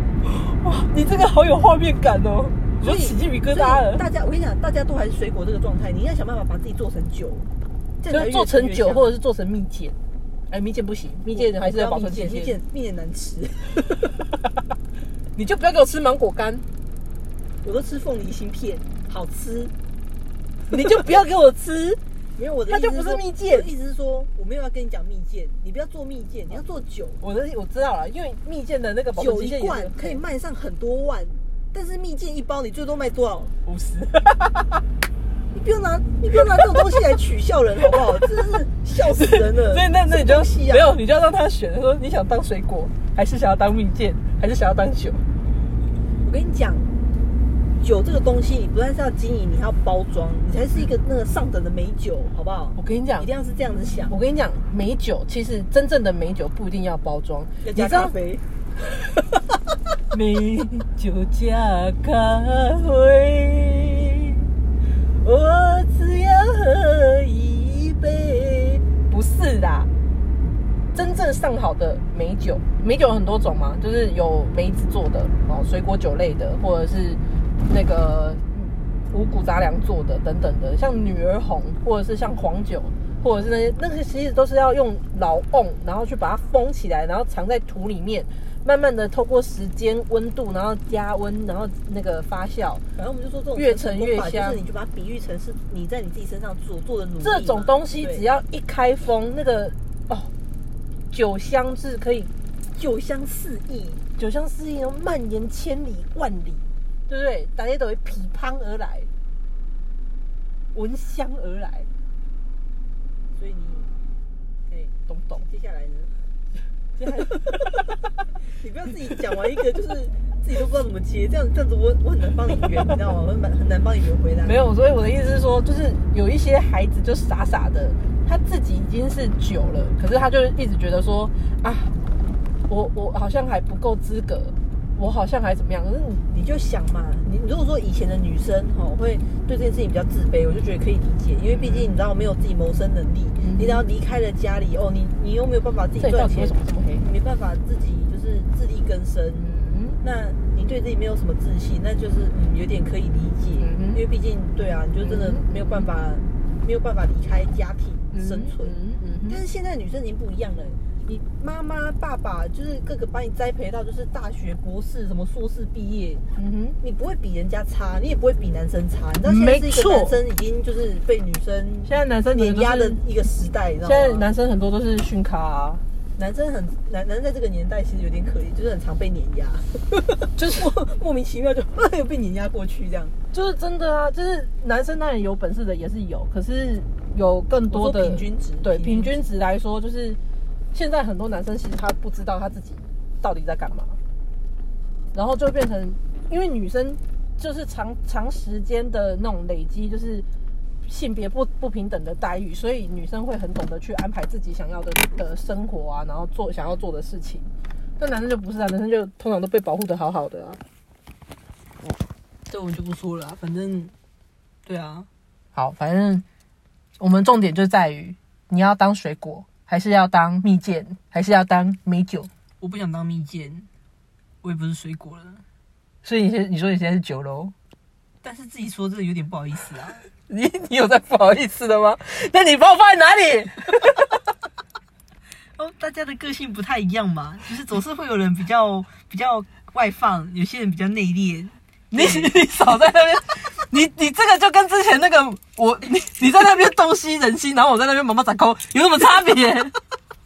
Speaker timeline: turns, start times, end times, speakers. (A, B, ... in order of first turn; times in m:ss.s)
0:00.2-0:04.0 A
0:02.8-0:07.5 B
0:08.0-0:09.1 B
0:08.1-0:10.0 A
0:10.5-0:12.6 A
0:11.3-0:14.1 B
0:15.4-0:16.6 A
0:17.6-0:19.7 B
0:20.7-0:22.0 A
0:22.4-0:27.2 B
0:22.7-0:23.7 A
0:27.2-0:30.2 A
0:29.2-0:33.5 B
0:33.6-0:34.8 A
0:35.5-0:40.9 B
0:36.6-0:36.8 A
0:39.0-0:45.2 A
0:46.2-0:46.9 B
0:47.8-0:54.2 B
0:52.8-0:53.3 A
0:54.1-0:58.2 A
0:57.6-0:58.4 B
1:00.1-1:04.4 A
1:05.2-1:09.9 A
1:10.9-1:32.8 A
1:33.0-1:38.2 B
1:33.6-1:34.6 A
1:37.2-1:40.3 A
1:41.1-1:42.3 A
1:42.8-1:44.0 B
1:44.2-1:49.1 A
1:50.7-1:51.9 A
1:53.4-1:53.9 B
1:54.7-1:56.2 B
1:55.1-1:55.4 A
1:57.0-1:58.0 B
1:58.5-2:04.6 B
2:04.4-2:11.9 A
2:12.7-2:16.2 A
2:16.3-2:29.5 B
2:21.5-2:21.9 A
2:23.4-2:23.8 A
2:26.0-2:27.0 A
2:29.4-2:30.0 A
2:30.0-2:38.8 B
2:33.6-2:34.0 A
2:35.0-2:35.9 A
2:38.1-2:39.4 A
2:39.3-2:46.2 B
2:46.4-2:46.8 A
2:46.8-2:54.3 B
2:49.2-2:50.2 A
2:51.8-2:53.0 A
2:53.8-2:55.8 A
2:56.2-3:03.2 B
3:00.4-3:00.7 A
3:03.3-3:10.2 A
3:07.7-3:09.1 B
3:10.7-3:14.0 A
3:15.1-3:20.3 A
3:20.9-3:30.6 A
3:32.5-3:33.9 B
3:34.7-3:35.1 B
3:35.6-3:36.2 A
3:37.0-3:42.3 A
3:42.6-3:43.7 B
3:44.4-3:45.4 B
3:46.0-3:47.5 A
3:48.2-3:50.0 B
3:50.3-3:54.1 A
3:55.6-4:02.3 B
4:01.9-4:09.7 A